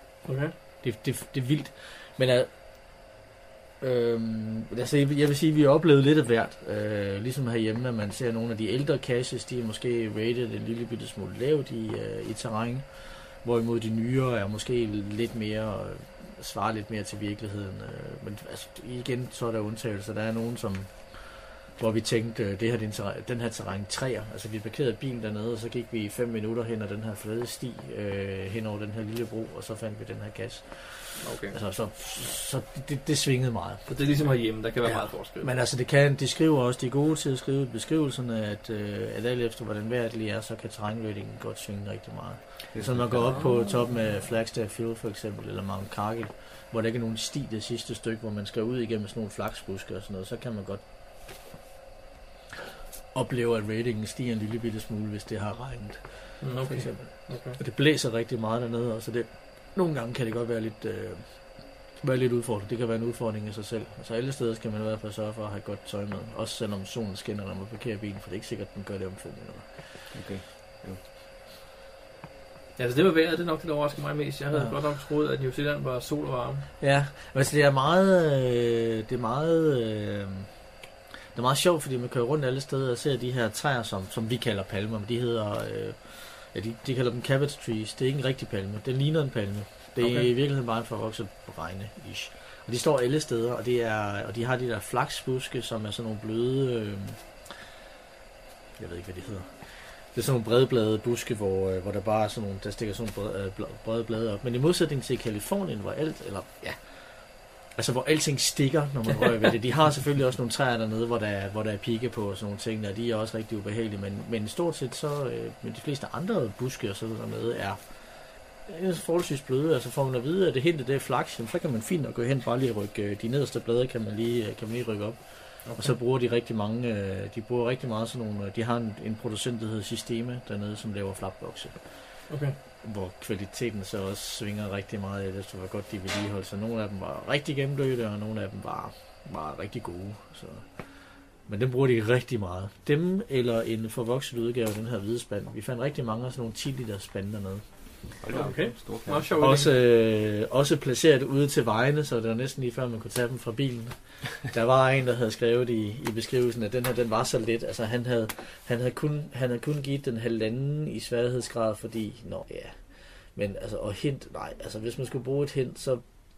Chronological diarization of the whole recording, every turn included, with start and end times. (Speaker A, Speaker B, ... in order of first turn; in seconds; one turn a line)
Speaker A: 0.2-0.5
Speaker B: 0.8-2.5
Speaker B: 3.8-33.8
Speaker A: 31.2-31.6
Speaker A: 33.9-35.5
Speaker B: 34.8-50.8
Speaker C: 42.7-43.4
Speaker B: 53.1-61.4
Speaker A: 56.4-57.6
Speaker B: 62.0-69.7
Speaker C: 70.1-71.0
Speaker A: 72.8-76.7
Speaker B: 76.8-80.5
Speaker B: 81.3-97.2
Speaker A: 90.0-90.3
Speaker B: 98.8-106.8
Speaker B: 107.7-117.8
Speaker B: 118.7-132.1
Speaker A: 125.7-125.9
Speaker A: 132.3-132.5
Speaker B: 132.8-140.9
Speaker B: 141.4-147.6
Speaker C: 148.2-149.3
Speaker A: 148.3-149.7
Speaker B: 149.3-162.8
Speaker B: 163.3-166.0